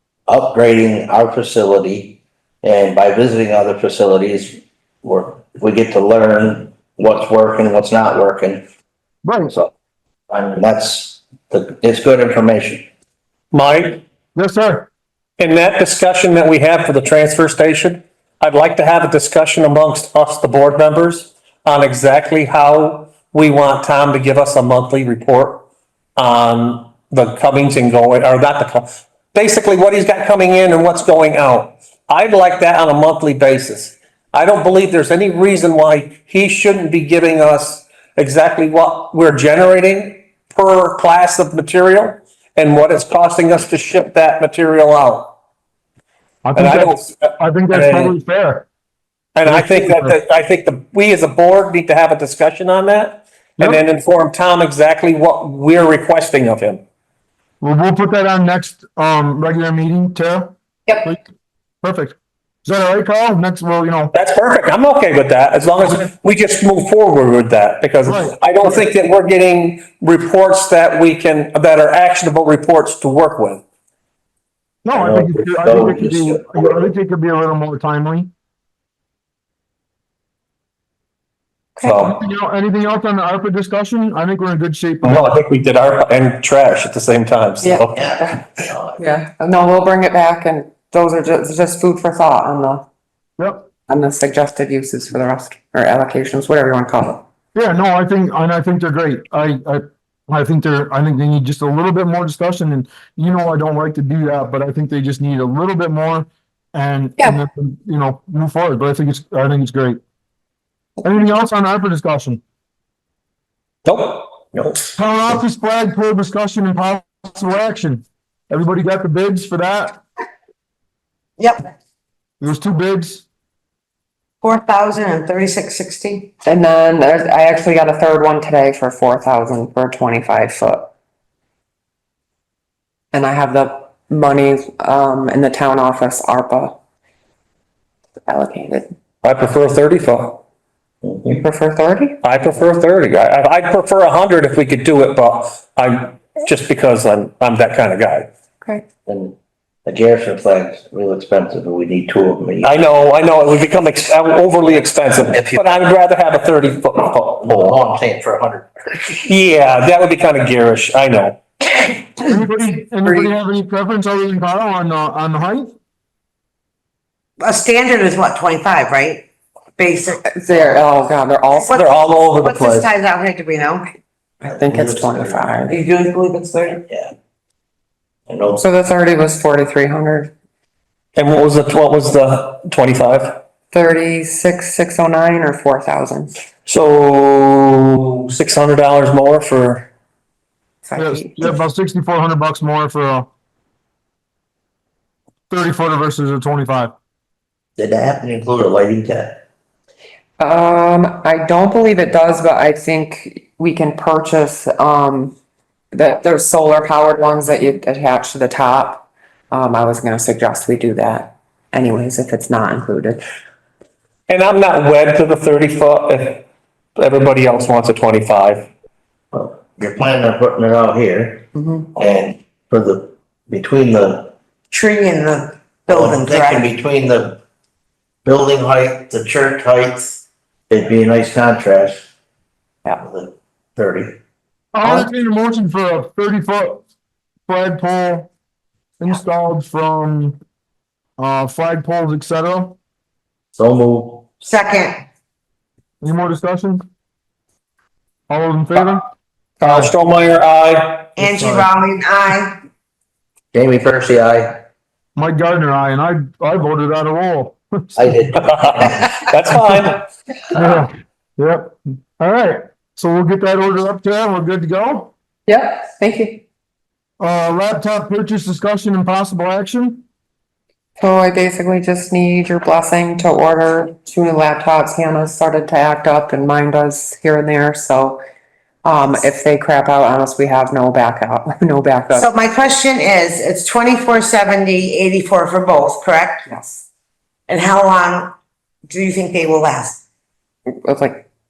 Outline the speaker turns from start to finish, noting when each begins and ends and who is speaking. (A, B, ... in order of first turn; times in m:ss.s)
0:00.3-0:08.6 A
0:09.2-0:09.5 B
0:10.3-0:12.9 A
0:13.5-0:14.0 C
0:14.3-0:14.9 B
0:15.4-0:25.6 C
0:26.2-0:45.3 C
0:46.4-0:48.6 B
0:46.5-0:48.1 C
0:49.4-0:56.8 C
0:49.4-0:50.2 B
0:57.6-1:01.2 B
1:01.8-1:04.1 B
1:04.1-1:13.6 C
1:08.0-1:08.4 B
1:14.8-1:18.3 B
1:14.9-1:16.9 A
1:21.8-1:22.2 C
1:22.0-1:25.3 B
1:25.0-1:28.7 C
1:27.6-1:28.2 D
1:27.9-1:29.0 A
1:29.0-1:32.9 D
1:33.4-1:33.6 B
1:33.9-1:37.2 D
1:37.5-1:50.0 B
1:51.0-1:52.4 B
1:53.8-1:54.8 C
1:55.0-2:00.0 B
2:01.4-2:01.6 E
2:02.4-2:03.2 B
2:04.4-2:06.3 E
2:06.4-2:10.9 D
2:13.1-2:16.8 D
2:18.3-2:18.9 D
2:19.2-2:20.4 C
2:21.3-2:22.2 D
2:22.2-2:28.3 C
2:29.0-2:32.7 A
2:32.6-2:37.8 C
2:35.3-2:35.7 A
2:37.4-2:39.0 A
2:39.1-2:41.4 C
2:42.2-2:45.7 B
2:47.4-2:49.2 E
2:49.8-2:50.6 E
2:50.4-2:51.7 D
2:51.6-2:53.9 E
2:51.7-2:52.9 C
2:54.4-2:55.7 D
2:54.4-2:55.6 A
2:55.7-2:56.8 E
2:56.9-2:57.1 A
2:58.3-2:58.6 A
2:58.6-3:00.3 D
3:01.2-3:03.4 C
3:03.7-3:06.4 D
3:06.6-3:09.9 C
3:10.8-3:11.5 D
3:11.0-3:13.3 B
3:15.5-3:16.9 B
3:17.8-3:19.4 A
3:20.4-3:25.4 D
3:25.9-3:33.2 D
3:34.3-3:36.4 C
3:37.0-3:38.7 C
3:39.3-3:44.3 A
3:41.6-3:41.9 D
3:44.7-3:46.7 E
3:45.9-3:47.4 A
3:48.2-3:52.1 A
3:52.9-3:54.2 A
3:54.7-3:56.8 B
3:57.5-3:58.3 B
3:59.0-4:00.4 B
4:01.2-4:02.8 B
4:03.5-4:04.3 A
4:04.4-4:05.0 E
4:06.0-4:06.8 B
4:08.3-4:09.0 B
4:09.6-4:11.1 C
4:09.6-4:09.9 B
4:11.2-4:11.7 B
4:11.2-4:12.6 E
4:13.5-4:14.6 A
4:15.2-4:17.8 B
4:17.9-4:19.1 A
4:18.4-4:20.0 C
4:20.5-4:25.1 B
4:25.5-4:26.4 D
4:27.2-4:30.0 B
4:31.0-4:38.2 D
4:38.8-4:42.3 D
4:42.1-4:46.4 E
4:46.5-4:46.8 D
4:47.5-4:48.3 E
4:48.8-4:50.0 E
4:50.8-4:51.3 D